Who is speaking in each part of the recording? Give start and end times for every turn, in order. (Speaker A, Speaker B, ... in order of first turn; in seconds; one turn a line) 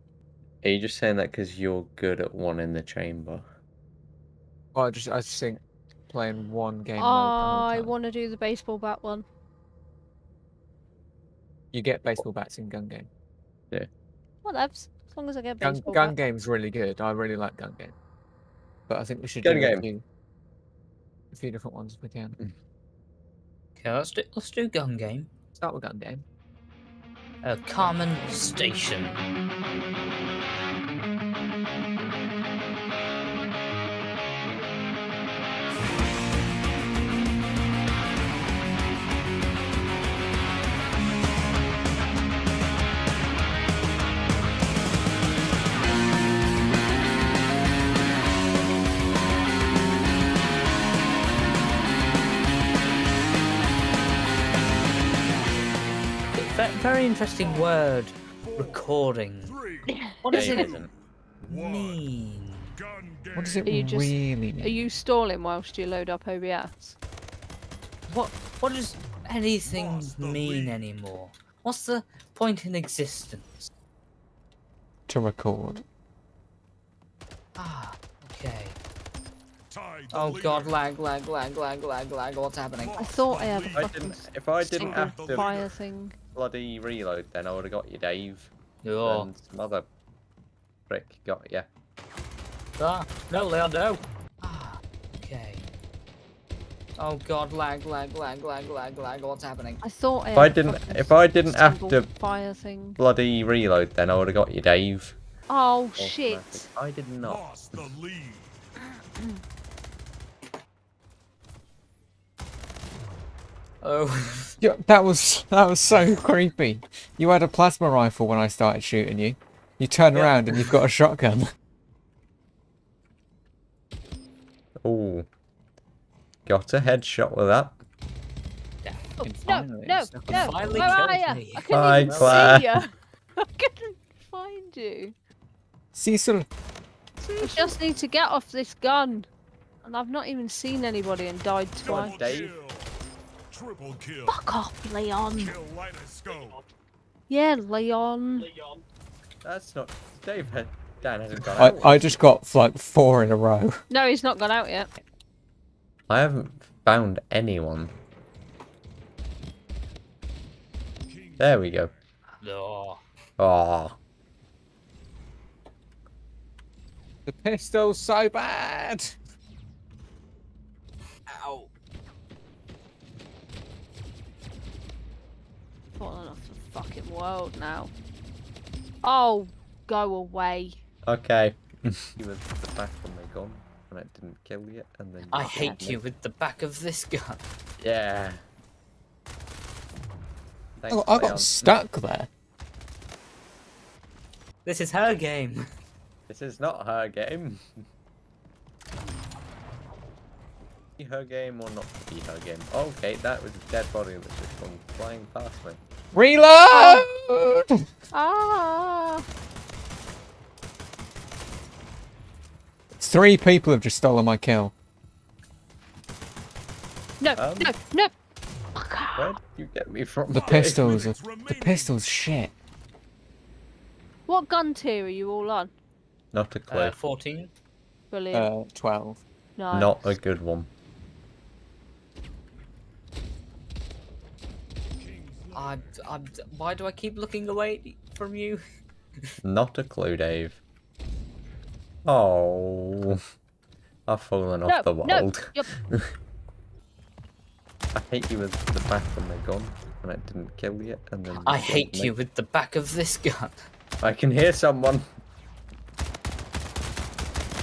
Speaker A: 0.6-3.4
Speaker B: 4.7-7.9
Speaker C: 7.0-9.2
Speaker B: 11.7-13.1
Speaker C: 14.4-16.1
Speaker B: 15.6-17.9
Speaker B: 18.9-20.0
Speaker A: 19.4-19.9
Speaker B: 21.3-22.4
Speaker D: 23.8-25.3
Speaker B: 25.6-26.2
Speaker D: 27.4-29.2
Speaker D: 56.3-59.6
Speaker C: 59.9-60.6
Speaker D: 60.2-60.8
Speaker A: 60.3-60.9
Speaker D: 61.4-62.8
Speaker E: 63.0-63.4
Speaker B: 63.3-64.8
Speaker C: 63.6-67.0
Speaker D: 68.1-73.7
Speaker B: 75.1-75.8
Speaker D: 77.6-78.8
Speaker D: 80.1-83.0
Speaker C: 83.0-86.2
Speaker A: 83.8-85.5
Speaker A: 86.3-88.5
Speaker D: 88.8-89.3
Speaker A: 89.0-89.9
Speaker A: 90.9-91.7
Speaker D: 92.8-95.7
Speaker D: 97.0-99.8
Speaker C: 99.8-103.0
Speaker A: 100.3-102.1
Speaker A: 103.0-105.2
Speaker C: 105.5-106.7
Speaker A: 106.0-107.9
Speaker E: 108.0-108.4
Speaker D: 113.8-114.5
Speaker B: 114.6-121.4
Speaker D: 120.1-120.7
Speaker A: 124.8-125.3
Speaker A: 126.5-127.7
Speaker C: 129.2-132.9
Speaker B: 129.2-131.0
Speaker D: 130.3-132.4
Speaker A: 131.7-132.7
Speaker C: 133.4-135.1
Speaker B: 135.9-136.5
Speaker D: 137.2-137.8
Speaker C: 137.4-139.3
Speaker C: 139.8-142.3
Speaker A: 141.8-142.6
Speaker E: 142.5-142.8
Speaker E: 143.5-144.2
Speaker C: 144.3-145.5
Speaker E: 145.5-146.6
Speaker C: 147.3-148.6
Speaker A: 149.4-152.2
Speaker B: 151.6-153.8
Speaker C: 153.9-154.9
Speaker A: 156.1-157.9
Speaker A: 161.4-161.9
Speaker D: 162.4-163.0
Speaker A: 163.4-164.0
Speaker B: 167.2-169.1
Speaker D: 171.3-171.7
Speaker C: 176.0-177.9
Speaker C: 179.0-180.8
Speaker A: 181.1-186.0
Speaker D: 185.3-187.4
Speaker A: 187.8-188.4
Speaker A: 190.8-191.7
Speaker B: 190.9-192.3
Speaker D: 194.6-195.6
Speaker A: 196.3-197.6
Speaker A: 201.0-205.8
Speaker B: 206.1-207.7
Speaker C: 206.7-207.0
Speaker C: 208.1-209.2
Speaker B: 212.9-214.7
Speaker C: 217.2-218.1
Speaker A: 217.3-217.7
Speaker C: 218.8-219.3
Speaker A: 219.2-220.9
Speaker B: 220.3-222.5
Speaker C: 224.3-225.7
Speaker A: 226.3-226.9
Speaker D: 226.7-227.5
Speaker C: 228.1-228.5
Speaker B: 228.3-229.2
Speaker C: 229.6-230.1
Speaker A: 229.7-230.7
Speaker D: 235.5-238.6
Speaker A: 239.4-240.6
Speaker A: 242.0-243.2
Speaker A: 244.1-246.1
Speaker C: 244.7-245.7
Speaker A: 247.9-252.1
Speaker D: 251.4-253.6
Speaker A: 254.0-255.1